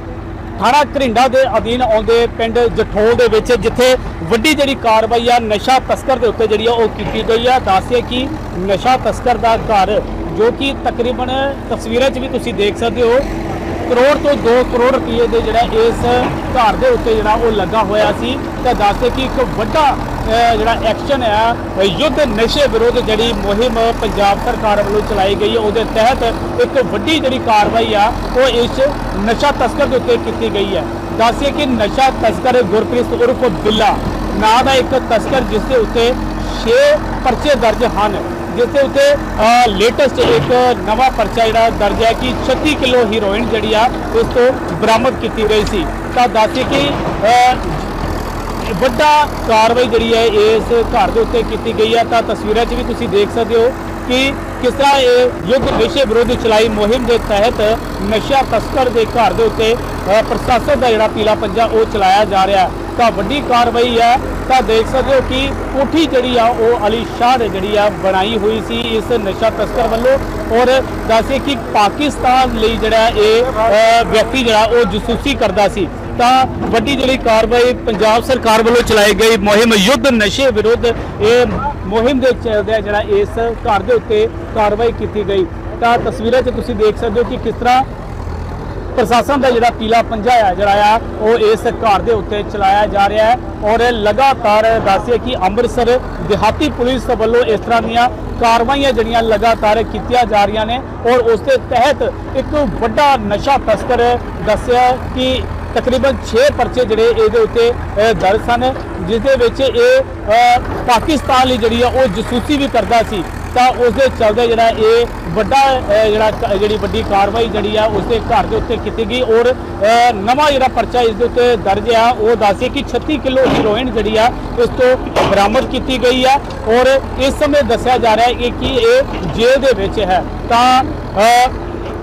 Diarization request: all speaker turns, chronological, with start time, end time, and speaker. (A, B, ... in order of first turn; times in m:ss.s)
0:00.6-0:13.3 A
0:13.9-0:47.9 A
0:48.6-1:27.9 A
1:29.0-2:11.6 A